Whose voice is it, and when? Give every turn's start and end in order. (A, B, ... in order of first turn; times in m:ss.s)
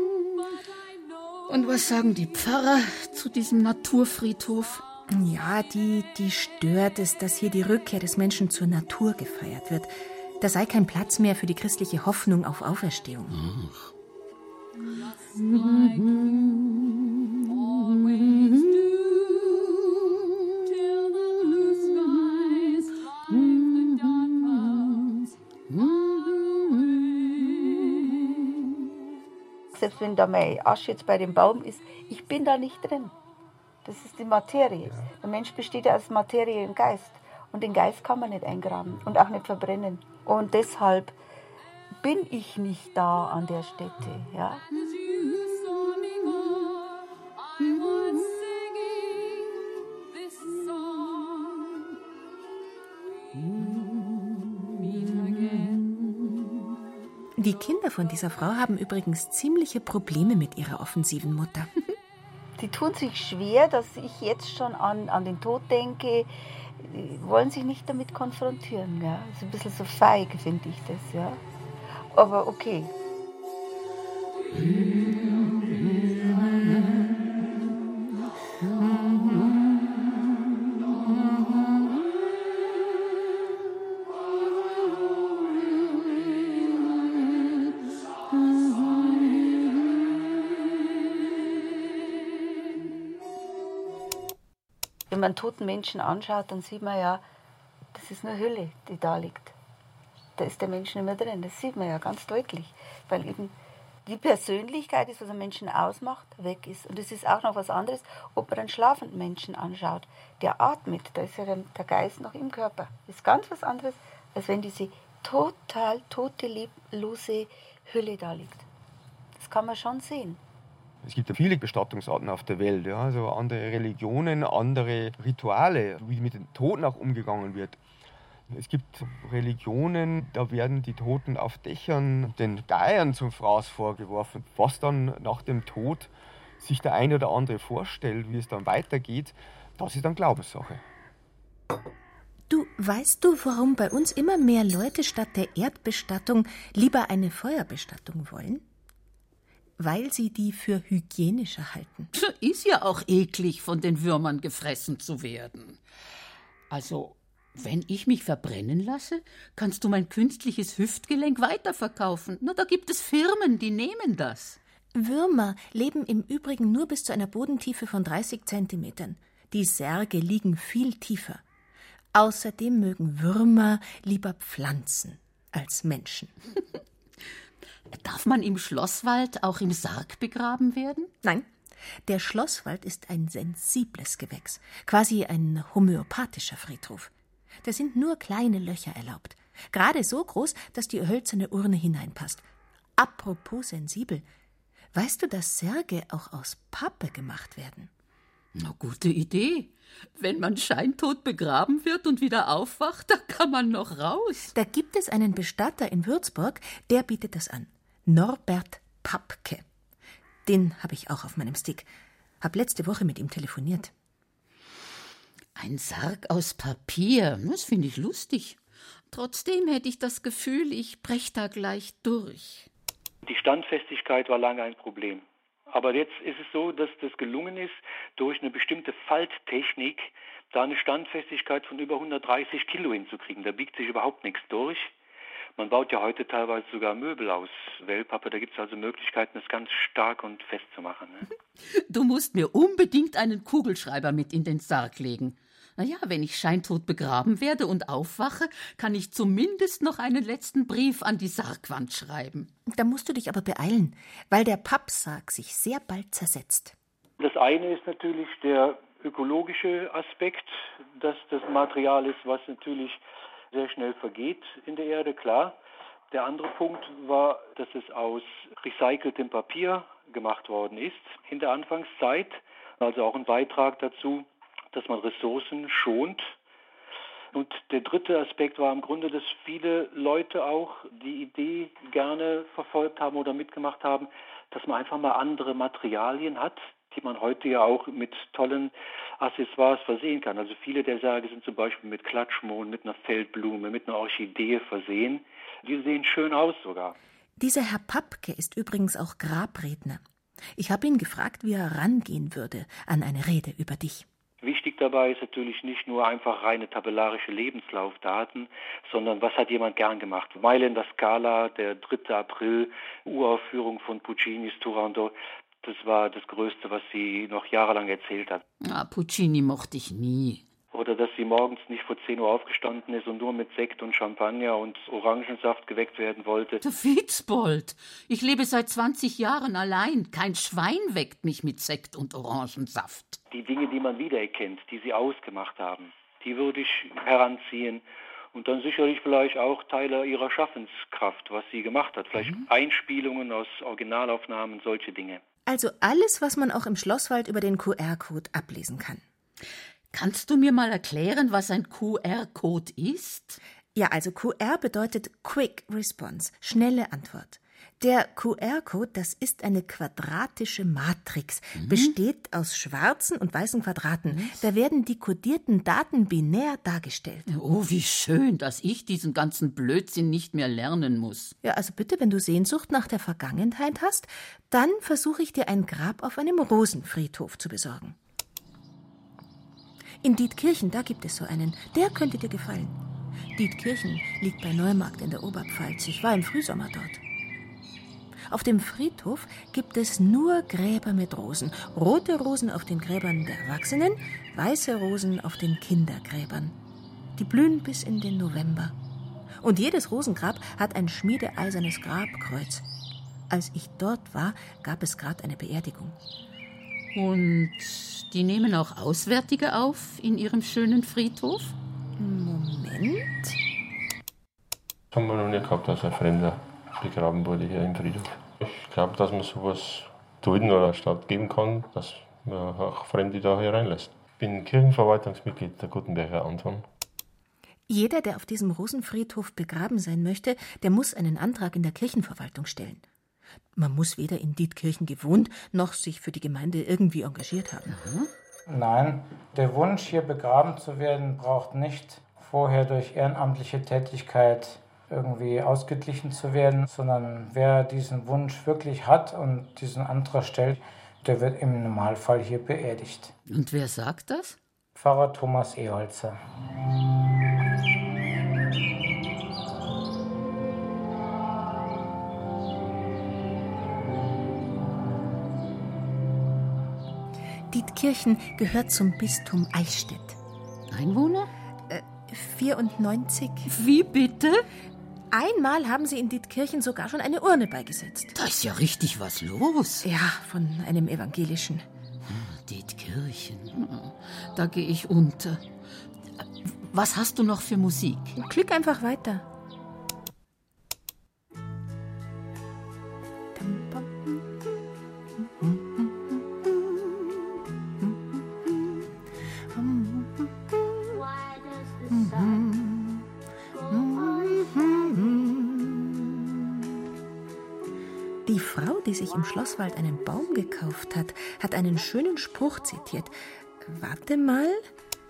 0:01.5-0:04.8 A
0:05.1-0:13.4 B
0:13.3-0:13.9 A
0:15.3-0:16.9 A
0:17.5-0:19.7 A
0:22.2-0:25.1 A
0:25.7-0:28.3 A
0:29.7-0:33.1 C
0:33.8-0:41.2 C
0:42.0-0:44.6 C
0:55.1-0:55.5 A
0:57.4-1:01.7 B
1:02.6-1:11.4 C
1:12.1-1:12.9 C
1:14.7-1:15.0 A
1:35.1-1:37.2 C
1:37.9-1:39.5 C
1:40.4-1:43.5 C
1:44.0-1:58.6 C
1:59.3-2:00.4 C
2:01.0-2:07.8 D
2:08.5-2:20.8 D
2:22.5-2:28.6 B
2:29.8-2:32.1 B
2:32.1-2:35.8 A
2:36.7-2:44.6 A
2:44.9-2:51.4 B
2:52.1-2:56.3 B
2:57.9-3:01.1 A
3:01.2-3:01.5 B
3:02.0-3:07.1 B
3:07.6-3:12.4 B
3:13.0-3:14.2 B
3:14.9-3:17.9 B
3:18.5-3:24.5 A
3:24.5-3:29.6 B
3:30.4-3:31.9 B
3:32.4-3:33.9 B
3:35.6-3:38.6 A
3:39.1-3:42.7 A
3:43.2-3:54.9 E
3:55.6-4:01.2 E
4:01.7-4:12.5 A
4:12.6-4:16.7 B
4:17.2-4:23.0 E
4:23.5-4:25.6 E
4:26.1-4:36.3 E
4:37.3-4:56.9 E
4:57.4-5:00.0 B
5:00.6-5:04.0 B
5:04.4-5:18.4 E
5:18.6-5:20.4 A
5:20.7-5:26.6 E
5:26.6-5:33.2 A
5:33.3-5:37.8 E
5:38.3-5:45.2 E
5:42.2-5:42.4 A
5:45.4-5:49.0 B
5:49.9-5:53.4 A
5:53.7-6:07.3 B
6:01.5-6:01.9 A
6:04.1-6:04.4 A
6:07.3-6:11.3 A
6:11.4-6:17.9 B
6:20.0-6:22.8 B
6:23.3-6:27.0 B
6:28.3-6:36.6 B
6:37.2-6:38.7 B
6:39.4-6:42.6 B
6:43.3-6:46.0 B
6:46.9-6:51.5 A
6:52.0-6:53.4 B
6:54.9-7:06.6 F
7:07.7-7:12.8 B
7:13.6-7:17.7 B
7:17.7-7:18.1 A
7:18.5-7:33.1 G
7:33.3-7:34.4 A
7:34.7-7:36.2 G
7:47.5-7:50.2 B
7:50.7-7:51.3 A
7:51.7-7:53.5 B
7:53.5-7:54.4 A
7:55.1-7:58.1 B
7:58.1-7:59.8 A
7:59.8-8:01.6 B
8:02.1-8:05.4 A
8:06.2-8:08.1 A
8:08.2-8:09.2 B
8:13.3-8:14.6 B
8:15.2-8:16.9 B
8:17.8-8:18.9 B
8:19.5-8:21.0 B
8:21.8-8:26.7 B
8:28.2-8:34.6 B